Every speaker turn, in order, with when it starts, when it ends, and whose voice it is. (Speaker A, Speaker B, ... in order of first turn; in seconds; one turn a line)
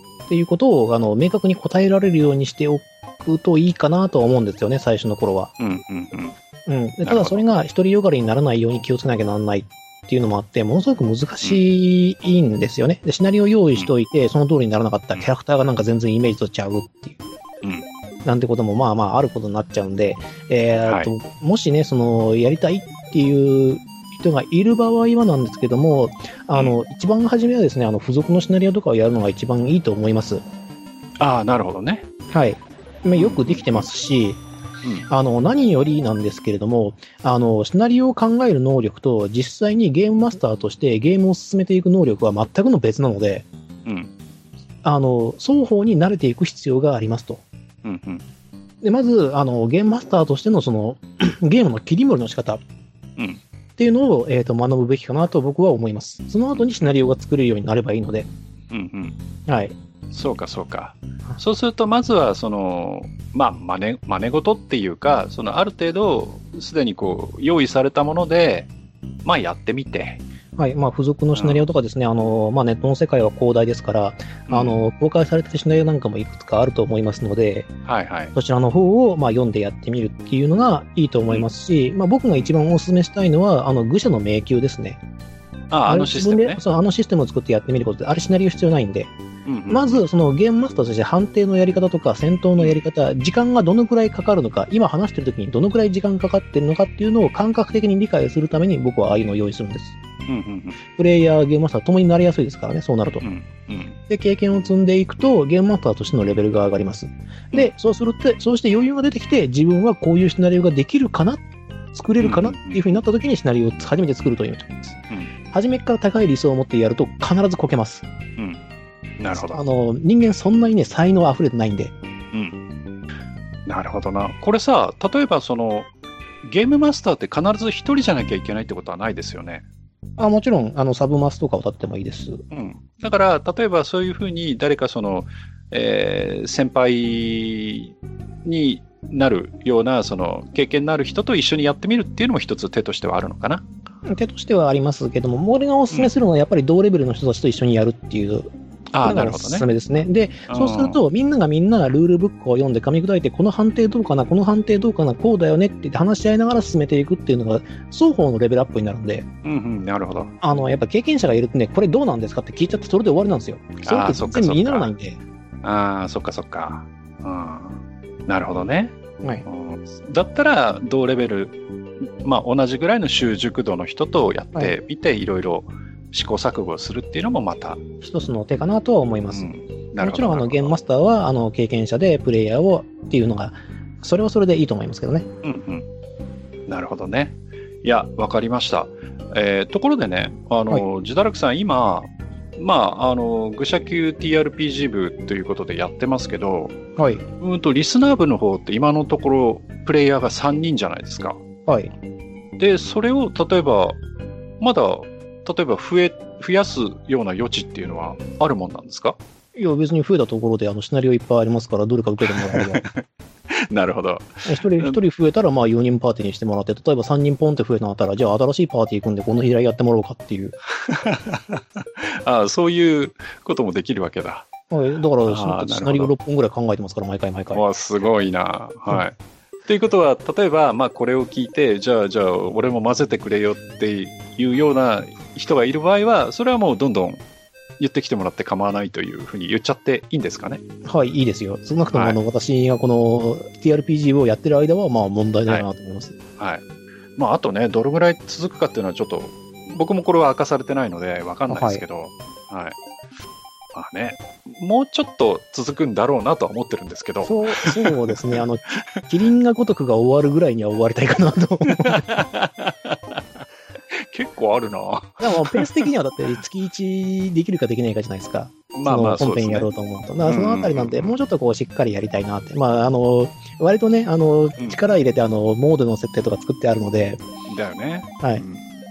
Speaker A: 0.3-5.5
Speaker B: 5.6-6.3
Speaker A: 6.7-17.2
Speaker B: 7.0-7.4
Speaker A: 18.2-30.4
Speaker B: 20.8-21.1
Speaker B: 31.2-32.1
Speaker A: 32.3-34.4
Speaker B: 33.1-33.9
Speaker A: 35.1-43.5
Speaker B: 43.8-44.1
Speaker A: 44.8-47.4
Speaker B: 47.8-48.2
Speaker A: 48.8-52.6
Speaker A: 53.8-58.3
Speaker B: 58.7-59.2
Speaker A: 59.5-59.7
Speaker B: 60.1-68.7
Speaker B: 69.2-70.2
Speaker A: 70.6-77.7
Speaker B: 71.3-71.7
Speaker B: 74.5-74.8
Speaker B: 77.8-78.3
Speaker A: 78.3-85.0
Speaker B: 85.7-86.6
Speaker A: 85.8-89.1
Speaker B: 89.5-90.0
Speaker A: 89.7-100.0
Speaker B: 100.3-100.8
Speaker A: 101.0-103.2
Speaker B: 103.2-104.0
Speaker A: 104.1-115.0
Speaker B: 112.2-112.8
Speaker A: 115.5-118.0
Speaker B: 119.2-119.6
Speaker A: 119.3-121.9
Speaker B: 122.3-122.6
Speaker B: 123.7-125.9
Speaker B: 126.4-129.6
Speaker A: 130.2-132.4
Speaker B: 132.5-143.7
Speaker A: 144.0-148.5
Speaker B: 148.9-149.7
Speaker A: 149.0-159.2
Speaker B: 150.5-151.0
Speaker B: 159.4-160.3
Speaker A: 160.4-165.2
Speaker B: 163.8-164.9
Speaker B: 165.6-171.6
Speaker B: 172.2-177.8
Speaker A: 178.0-185.3
Speaker B: 179.3-180.7
Speaker B: 185.4-185.8
Speaker B: 186.7-196.7
Speaker A: 197.0-197.2
Speaker B: 197.4-201.4
Speaker A: 201.7-201.9
Speaker B: 202.6-204.0
Speaker B: 204.6-209.2
Speaker A: 209.5-212.8
Speaker B: 212.2-215.0
Speaker A: 214.4-220.6
Speaker B: 220.7-224.5
Speaker A: 224.7-227.6
Speaker B: 225.2-226.1
Speaker B: 227.5-237.2
Speaker B: 237.8-240.6
Speaker A: 240.8-246.2
Speaker B: 241.9-242.2
Speaker B: 246.4-246.6
Speaker B: 247.2-252.8
Speaker A: 251.5-251.8
Speaker B: 253.7-258.4
Speaker A: 257.2-262.0
Speaker B: 261.6-265.9
Speaker A: 265.2-277.2
Speaker B: 268.7-269.7
Speaker B: 270.2-271.1
Speaker B: 277.5-278.6